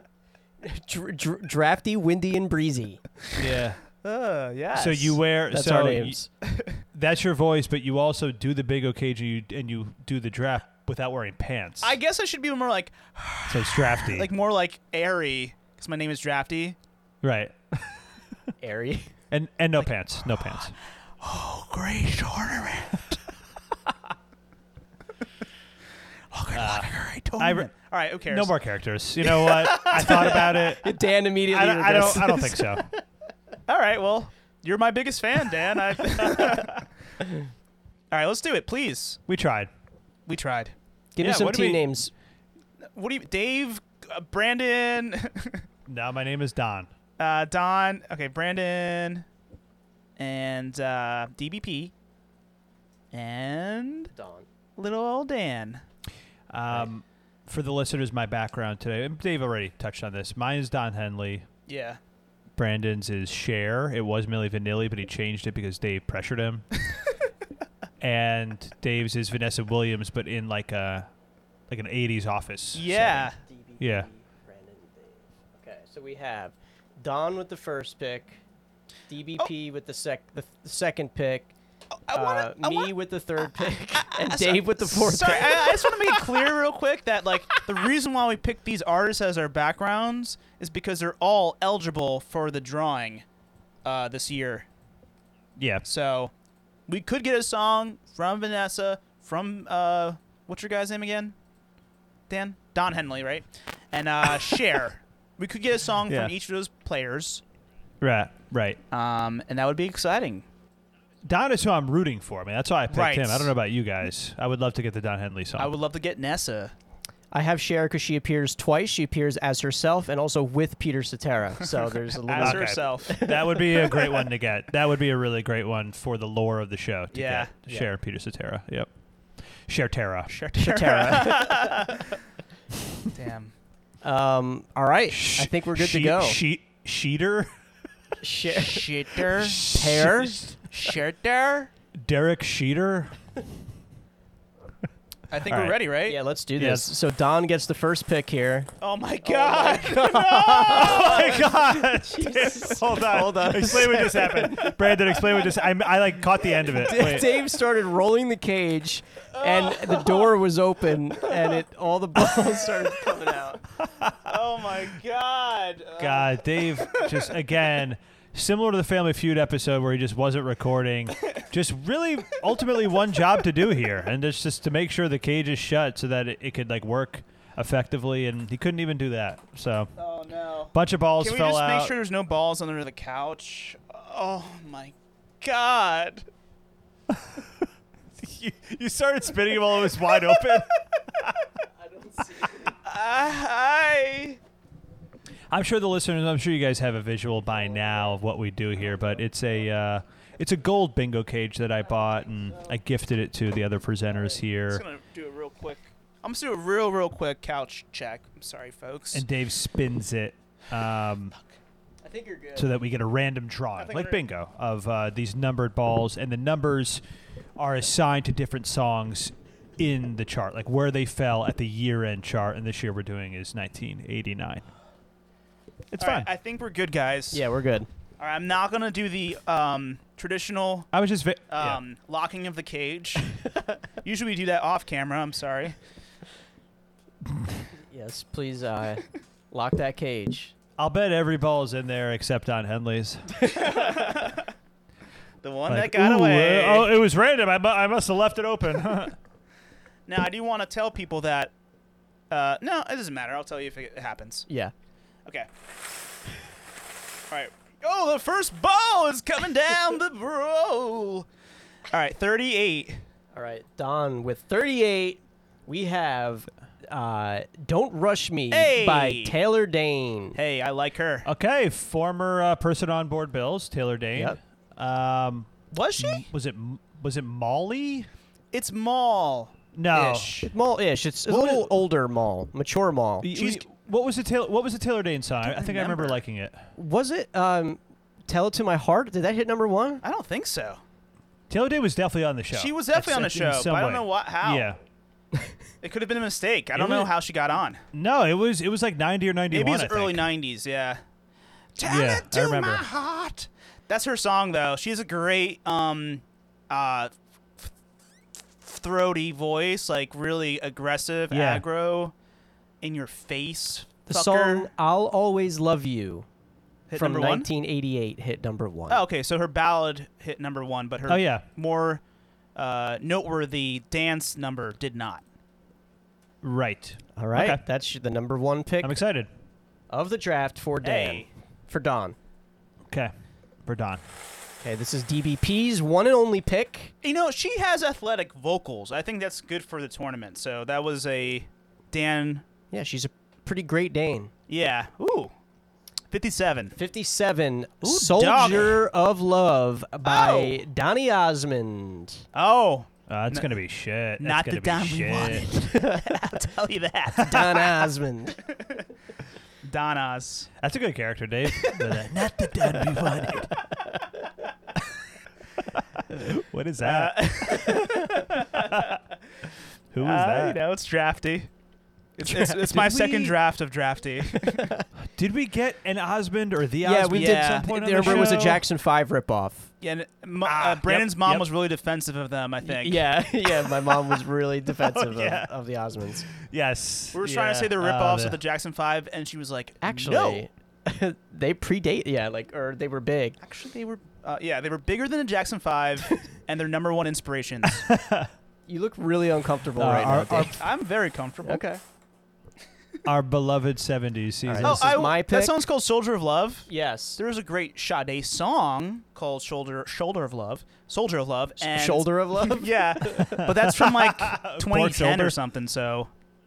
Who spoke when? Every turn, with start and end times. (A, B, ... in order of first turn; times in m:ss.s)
0:00.6-0:03.0 A
0:03.4-0:03.8 B
0:04.0-0:05.2 C
0:04.7-0:06.2 B
0:05.5-0:06.3 A
0:06.9-0:12.0 B
0:11.8-0:16.8 C
0:13.5-0:14.3 B
0:17.2-0:18.2 B
0:18.6-0:19.1 A
0:19.3-0:20.7 B
0:19.8-0:23.2 C
0:26.3-0:28.5 C
0:26.5-0:27.7 B
0:28.3-0:32.9 B
0:29.3-0:30.4 C
0:29.7-0:33.0 A
0:33.7-0:36.8 C
0:38.1-0:39.2 C
0:39.3-0:39.7 B
0:40.3-0:40.7 C
0:41.2-0:42.1 A
0:41.2-0:41.9 B
0:43.0-0:45.6 C
0:45.9-0:46.9 B
0:47.2-0:49.2 C
0:50.2-0:51.9 C
0:53.1-0:54.1 C
0:54.1-0:54.5 A
0:54.8-0:55.8 C
0:56.5-1:01.5 B
1:01.7-1:02.0 C
1:02.6-1:06.7 B
1:08.0-1:11.1 B
1:11.7-1:14.1 B
1:12.7-1:13.4 C
1:13.4-1:18.4 A
1:19.1-1:21.5 A
1:22.1-1:22.9 C
1:22.1-1:26.4 A
1:24.0-1:33.2 C
1:33.8-1:34.7 C
1:35.6-1:35.9 B
1:35.9-1:36.3 C
1:36.9-1:41.4 C
1:42.3-1:47.4 C
1:46.1-1:46.3 B
1:48.0-1:48.8 B
1:48.9-1:50.4 C
1:51.3-1:55.7 B
1:52.9-1:53.5 C
1:55.6-1:56.7 C
1:57.3-2:04.2 A
2:02.2-2:03.2 C
2:02.4-2:08.9 B
2:07.1-2:07.5 C
2:09.6-2:10.3 B
2:10.3-2:12.2 C
2:10.6-2:11.9 A
2:13.1-2:13.5 C
2:14.0-2:16.4 A
2:15.1-2:17.5 B
2:18.2-2:20.5 A
2:18.5-2:19.7 C
2:19.3-2:20.6 B
2:20.7-2:21.7 C
2:21.9-2:23.2 B
2:25.3-2:26.2 C
2:25.5-2:25.8 B
2:26.1-2:28.7 A
2:26.6-2:26.9 B
2:28.8-2:31.5 C
2:29.2-2:35.1 A
2:30.7-2:37.4 B
2:36.7-2:43.6 A
2:39.4-2:40.4 C
2:41.2-2:41.6 C
2:43.9-2:44.3 B
2:44.2-2:47.3 C
2:46.0-2:59.9 B
3:00.0-3:06.3 C
3:00.7-3:01.9 B
3:07.1-3:07.4 B
3:08.2-3:11.3 B
3:09.9-3:10.6 C
3:12.5-3:14.4 C
3:15.5-3:24.8 B
3:24.7-3:29.2 C
3:29.1-3:31.3 B
3:32.0-3:32.7 A
3:32.6-3:37.0 B
3:33.8-3:34.2 C
3:37.6-3:44.6 B
3:45.9-3:46.3 B
3:46.0-3:47.5 C
3:47.3-3:47.9 A
3:48.2-3:50.9 C
3:50.9-3:51.8 B
3:51.5-3:53.4 C
3:54.0-3:55.8 C
3:57.9-4:00.5 A
4:00.8-4:03.5 B
4:03.5-4:04.5 C
4:05.4-4:07.0 C
4:05.7-4:09.2 B
4:10.1-4:11.5 C
4:12.3-4:14.5 C
4:17.3-4:21.3 C
4:21.9-4:23.0 C
4:23.4-4:30.4 A
4:28.5-4:29.4 C
4:30.4-4:31.3 C
4:31.2-4:38.1 B
4:35.7-4:36.3 C
4:38.5-4:40.5 C
4:39.7-4:40.4 B
4:40.4-4:43.3 A
4:41.3-4:41.7 B
4:43.2-4:46.6 B
4:43.3-4:43.7 C
4:45.4-4:46.2 C
4:46.8-4:50.0 A
4:50.0-4:50.8 C
4:51.5-4:54.8 B
4:52.5-4:54.7 C
4:55.8-4:57.8 C
4:56.7-4:57.1 B
4:57.9-5:00.3 B
4:59.5-5:01.0 C
5:01.8-5:07.7 C
5:01.8-5:02.9 B
5:08.6-5:12.1 C
5:11.3-5:11.6 B
5:12.8-5:14.7 C
5:14.1-5:16.3 A
5:16.9-5:17.5 C
5:16.9-5:19.0 A
5:18.9-5:22.0 C
5:21.1-5:21.4 B
5:22.6-5:25.2 C
5:26.4-5:27.6 B
5:27.2-5:29.0 A
5:28.8-5:29.3 B
5:29.9-5:32.2 A
5:30.8-5:31.3 C
5:33.6-5:34.0 B
5:34.6-5:36.9 A
5:37.0-5:42.4 C
5:42.7-5:44.3 A
5:44.5-5:45.3 C
5:46.1-5:46.8 C
5:46.8-5:52.2 A
5:47.8-5:48.8 C
5:50.0-5:50.6 C
5:52.3-5:53.5 C
5:53.1-5:55.5 B
5:54.2-5:57.8 C
5:55.6-5:56.2 A
5:57.2-5:57.5 B
5:57.2-5:58.4 A
5:58.5-5:58.8 C
5:59.6-6:00.5 C
6:00.6-6:03.6 B
6:01.6-6:01.9 C
6:02.7-6:03.3 C
6:03.5-6:04.0 A
6:06.0-6:07.7 B
6:06.8-6:09.0 C
6:07.6-6:08.2 A
6:08.6-6:09.0 B
6:09.9-6:10.6 B
6:10.0-6:11.5 C
6:12.2-6:14.7 C
6:12.3-6:12.5 A
6:12.6-6:13.4 B
6:14.5-6:14.9 A
6:15.0-6:18.6 B
6:16.8-6:19.7 A
6:17.1-6:18.6 C
6:19.8-6:23.1 C
6:20.4-6:21.4 B
6:22.6-6:26.3 A
6:24.7-6:25.5 B
6:26.3-6:28.4 B
6:27.1-6:30.4 C
6:29.8-6:33.4 A
6:33.4-6:37.9 C
6:37.6-6:38.3 B
6:38.7-6:40.6 A
6:39.8-6:40.6 B
6:40.5-6:41.6 C
6:41.4-6:41.8 A
6:43.0-6:45.0 B
6:44.5-6:45.6 A
6:44.6-6:56.1 C
6:46.7-6:47.2 A
6:51.6-6:53.4 A
6:53.1-6:55.4 B